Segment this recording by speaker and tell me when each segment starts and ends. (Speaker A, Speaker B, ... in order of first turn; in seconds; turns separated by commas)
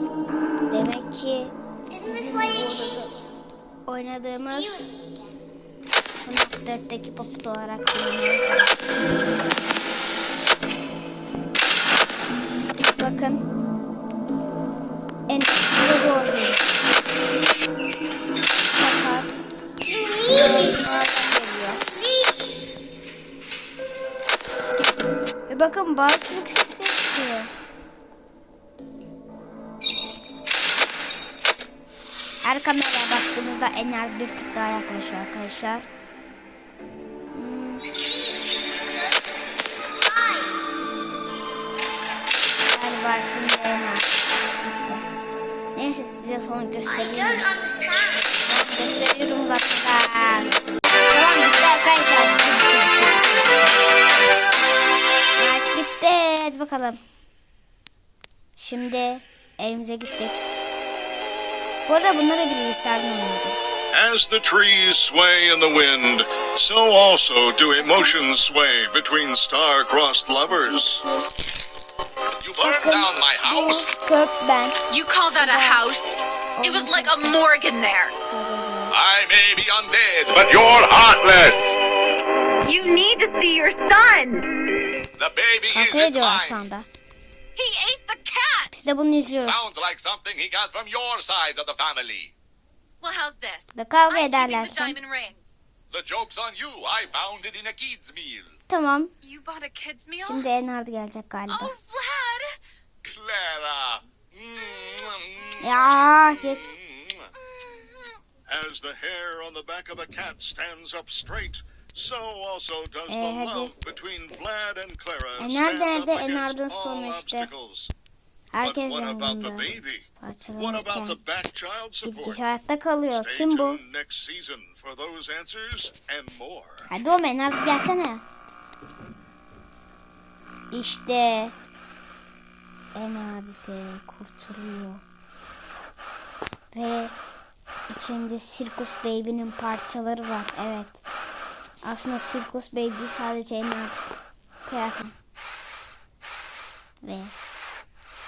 Speaker A: 0.7-3.1, Speaker A: 3.9-4.9, Speaker A: 6.2-8.9, Speaker A: 13.0-13.5, Speaker A: 15.3-16.6, Speaker A: 18.7-19.5, Speaker A: 20.2-21.8, Speaker A: 25.5-27.5, Speaker A: 32.4-35.9, Speaker A: 37.3-37.8, Speaker A: 42.7-45.0, Speaker A: 45.7-47.6, Speaker A: 48.4-50.5, Speaker A: 51.1-53.8, Speaker A: 55.4-57.0, Speaker A: 58.6-60.5, Speaker A: 61.9-63.6, Speaker B: 63.9-71.0, Speaker A: 67.8-68.1, Speaker A: 70.4-71.3, Speaker C: 72.4-74.0, Speaker A: 72.6-74.8, Speaker D: 74.9-78.1, Speaker A: 75.3-75.9, Speaker A: 76.6-77.4, Speaker A: 78.2-79.0, Speaker C: 78.9-81.8, Speaker D: 82.6-84.5, Speaker A: 82.7-83.0, Speaker C: 85.2-86.6, Speaker A: 85.7-86.9, Speaker D: 87.5-88.8, Speaker A: 88.7-89.6, Speaker C: 89.4-92.3, Speaker D: 93.0-95.4, Speaker A: 93.7-95.0, Speaker C: 95.9-98.5, Speaker A: 98.7-99.1, Speaker D: 99.2-100.4, Speaker A: 100.2-101.7, Speaker D: 101.5-102.5, Speaker C: 103.0-107.3, Speaker A: 105.6-106.7, Speaker D: 107.5-108.1, Speaker B: 108.5-117.9, Speaker A: 113.1-113.8, Speaker A: 115.4-117.5, Speaker A: 118.5-121.2, Speaker B: 118.6-122.4, Speaker A: 122.0-123.8, Speaker B: 123.1-126.9, Speaker A: 126.9-128.2, Speaker A: 130.7-131.5, Speaker A: 132.9-135.0, Speaker A: 136.7-137.2, Speaker A: 137.9-141.0, Speaker A: 141.8-144.0, Speaker A: 144.6-145.2, Speaker A: 147.0-147.3